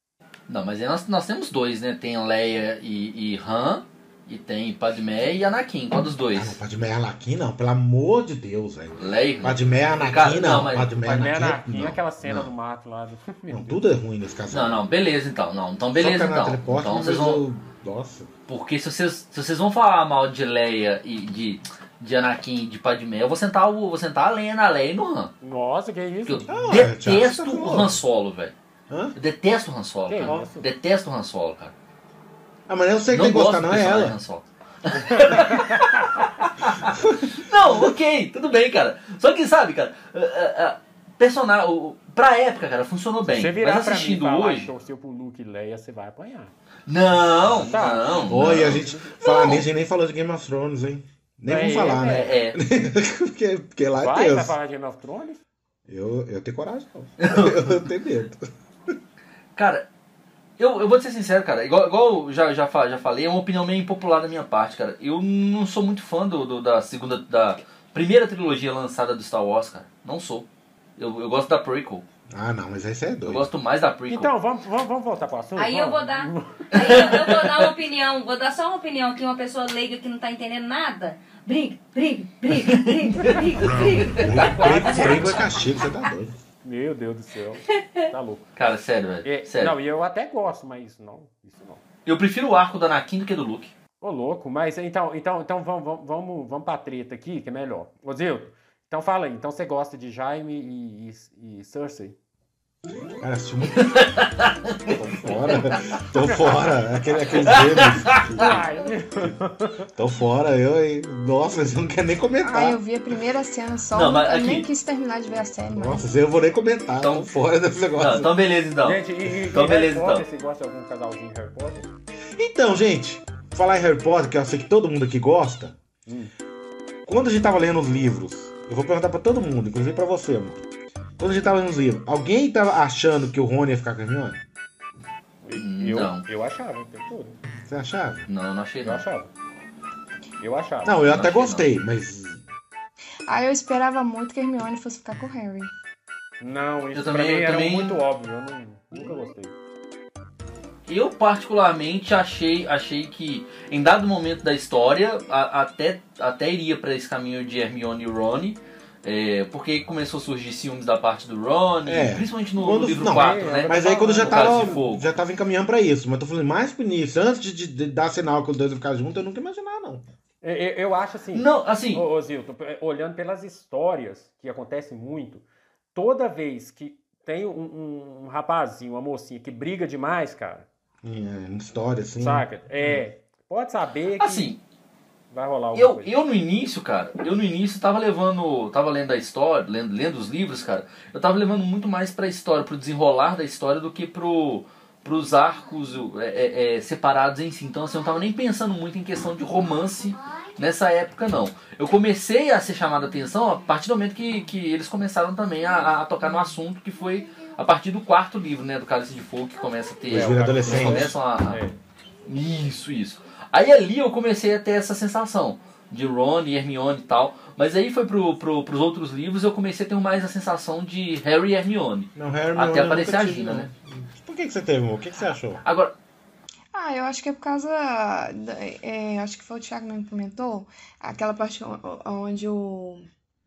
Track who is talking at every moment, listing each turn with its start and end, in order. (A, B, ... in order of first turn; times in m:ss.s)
0:00.5-0:06.6 A
0:06.3-0:12.5 B
0:09.0-0:11.0 A
0:11.0-0:13.8 C
0:13.5-0:14.8 B
0:14.5-0:17.4 A
0:16.0-0:18.3 B
0:18.5-0:25.3 A
0:25.4-0:26.7 C
0:26.2-0:28.5 A
0:26.5-0:28.0 B
0:28.9-0:29.1 B
0:29.1-0:31.7 A
0:30.1-0:30.7 C
0:32.7-0:34.2 B
0:33.1-0:44.7 A
0:34.9-0:36.3 C
0:36.8-0:37.9 B
0:43.3-0:46.5 C
0:46.9-0:49.6 A
0:47.5-0:49.1 C
0:48.3-0:54.5 B
0:51.4-0:52.3 C
0:51.9-0:52.6 A
0:54.0-0:55.4 C
0:55.9-0:58.5 B
0:57.2-0:57.8 A
0:59.6-0:59.8 A
1:00.6-1:12.0 A
1:12.3-1:13.4 B
1:13.2-1:14.3 A
1:14.1-1:16.9 C
1:15.6-1:25.2 D
1:16.7-1:17.7 A
1:22.5-1:24.4 A
1:24.2-1:26.4 B
1:24.3-1:25.5 C
1:26.6-1:28.5 C
1:27.8-1:28.1 D
1:28.6-1:29.7 A
1:29.2-1:31.8 C
1:32.0-1:33.7 A
1:34.0-1:42.2 C
1:43.2-1:44.1 B
1:43.8-1:45.0 A
1:44.9-1:48.6 B
1:46.2-1:47.3 C
1:47.4-1:48.4 A
1:48.4-1:49.9 C
1:49.9-1:52.8 B
1:52.4-1:56.0 E
1:53.9-1:54.7 A
1:55.7-1:58.3 B
1:57.0-1:57.4 A
1:58.0-2:00.2 A
1:58.8-2:01.9 C
2:02.4-2:05.8 B
2:07.0-2:10.6 B
2:11.2-2:14.4 B
2:15.4-2:17.4 C
2:15.5-2:16.2 A
2:17.7-2:18.3 B
2:18.3-2:19.0 A
2:18.8-2:19.3 C
2:20.4-2:21.0 C
2:20.8-2:22.4 B
2:21.0-2:21.7 A
2:23.3-2:25.7 E
2:26.4-2:29.5 C
2:26.9-2:28.0 A
2:30.9-2:45.0 A
2:41.8-2:50.0 B
2:43.1-2:44.8 C
2:50.4-3:00.7 C
2:51.3-2:52.0 A
3:01.0-3:03.0 B
3:02.2-3:04.5 C
3:04.2-3:04.6 A
3:05.3-3:06.1 C
3:05.7-3:31.6 A
3:30.1-3:31.2 B
3:30.1-3:31.8 C
3:32.2-3:43.7 A
3:42.2-3:45.6 B
3:45.6-3:45.9 A
3:46.7-3:53.0 E